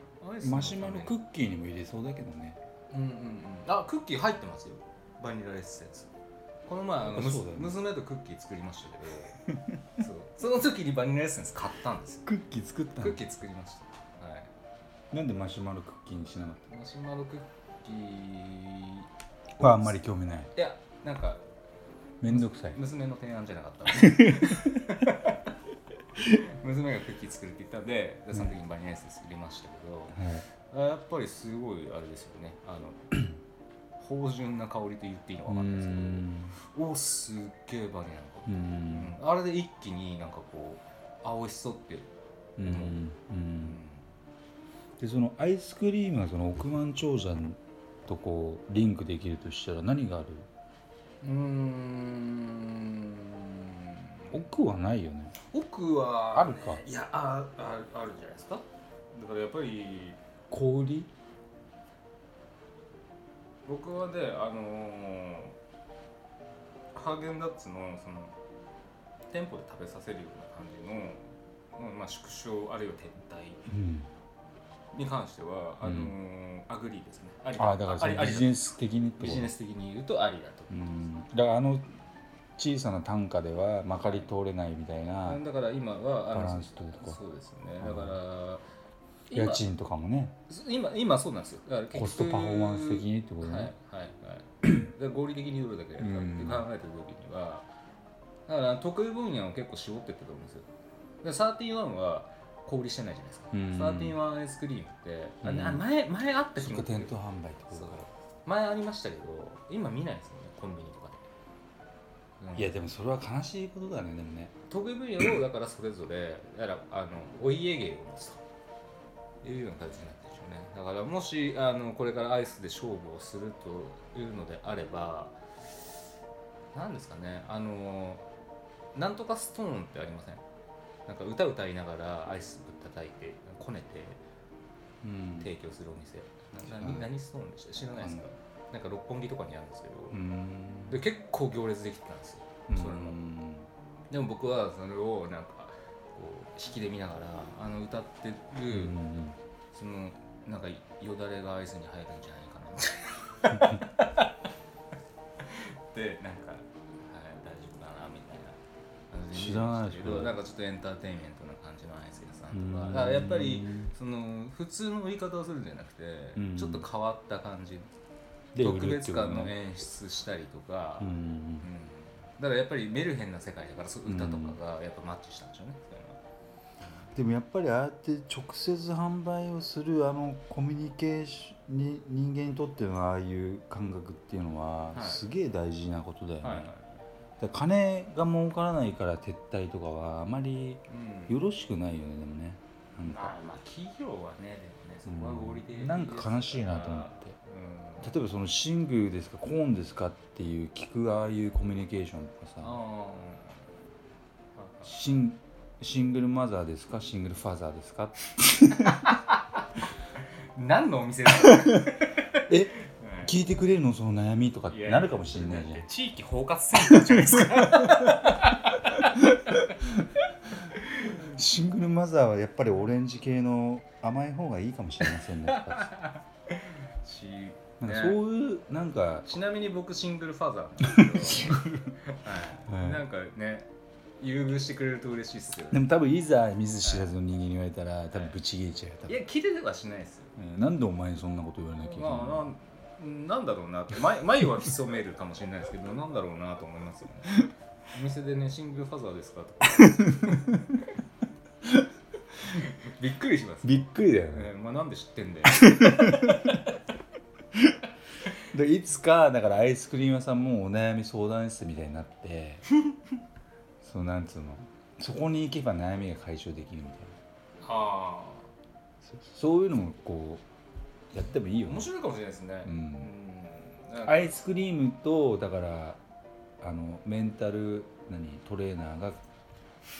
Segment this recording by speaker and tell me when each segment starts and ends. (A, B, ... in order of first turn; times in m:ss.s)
0:00.2-0:01.2 A
0:00.4-0:02.6 B
0:02.9-0:06.1 A
0:06.7-0:12.3 A
0:07.0-0:07.8 B
0:09.5-0:09.8 B
0:12.3-0:13.2 B
0:13.0-0:14.5 A
0:15.1-0:16.6 B
0:16.7-0:20.0 A
0:19.6-0:20.5 B
0:20.5-0:21.4 A
0:22.2-0:22.8 B
0:22.3-0:25.4 A
0:23.9-0:24.8 B
0:26.2-0:33.2 A
0:30.1-0:30.5 B
0:34.0-0:42.1 A
0:35.5-0:36.6 B
0:38.5-0:39.2 B
0:42.6-0:43.8 B
0:42.6-0:43.0 A
0:43.6-0:44.1 A
0:45.0-0:50.5 B
0:51.2-0:54.4 A
0:54.3-0:55.3 B
0:55.5-1:00.2 A
0:56.4-0:56.8 B
1:00.5-1:01.1 B
1:03.7-1:05.6 A
1:06.9-1:08.4 A
1:09.3-1:13.6 A
1:13.7-1:14.1 B
1:14.9-1:18.6 A
1:15.8-1:16.1 B
1:17.6-1:19.5 B
1:19.2-1:21.0 A
1:20.7-1:21.9 B
1:22.6-1:25.4 B
1:24.0-1:24.3 A
1:25.2-1:28.6 A
1:26.3-1:27.2 B
1:27.8-1:28.2 B
1:29.3-1:29.6 A
1:29.3-1:30.4 B
1:30.5-1:37.7 A
1:31.9-1:33.7 B
1:36.0-1:36.7 B
1:38.5-1:40.7 A
1:41.2-1:47.1 A
1:43.5-1:44.2 B
1:45.4-1:45.8 B
1:46.6-1:48.1 B
1:47.7-1:51.2 A
1:52.4-1:52.8 A
1:52.6-1:54.5 B
1:54.7-1:58.4 A
1:59.4-2:05.4 A
2:06.7-2:08.3 A
2:08.9-2:10.4 A
2:11.1-2:14.2 A
2:15.0-2:15.5 B
2:15.4-2:20.2 A
2:16.6-2:17.1 B
2:18.0-2:18.3 B
2:20.1-2:21.0 B
2:20.9-2:23.2 A
2:22.7-2:23.7 B
2:24.1-2:29.0 A
2:28.7-2:29.4 B
2:29.7-2:34.3 A
2:35.4-2:38.6 A
2:39.1-2:47.9 A
2:39.3-2:40.4 B
2:42.5-2:43.9 B
2:46.4-2:46.9 B
2:48.6-2:49.5 B
2:48.6-2:56.2 A
2:51.0-2:51.7 B
2:54.0-2:54.6 B
2:56.8-2:57.1 A
2:57.2-3:06.7 B
3:04.9-3:05.2 A
3:06.4-3:06.8 A
3:07.4-3:13.4 B
3:10.9-3:11.4 A
3:13.0-3:18.2 A
3:15.1-3:17.4 B
3:18.0-3:22.8 B
3:22.6-3:23.6 A
3:24.6-3:24.9 A
3:24.8-3:29.1 B
3:28.9-3:29.3 A
3:30.5-3:33.4 A
3:31.3-3:35.8 B
3:34.7-3:39.1 A
3:36.8-3:38.3 B
3:39.0-3:40.1 B
3:41.1-3:46.0 B
3:45.2-3:48.2 A
3:47.8-3:49.4 B
3:49.3-3:55.8 A
3:50.8-3:52.0 B
3:52.6-3:53.0 B
3:55.7-3:59.2 B
3:56.8-3:57.2 A
3:58.1-3:58.4 A
3:59.1-4:00.3 A
4:00.4-4:02.5 B
4:01.8-4:10.8 A
4:09.9-4:10.6 B
4:12.5-4:16.6 A
4:13.6-4:14.5 B
4:15.5-4:16.5 B
4:18.5-4:22.7 B
4:23.8-4:27.2 B
4:27.6-4:28.5 A
4:29.0-4:30.4 B
4:31.1-4:31.9 B
4:31.6-4:34.4 A
4:32.6-4:33.1 B
4:34.0-4:36.0 B
4:36.6-4:39.2 B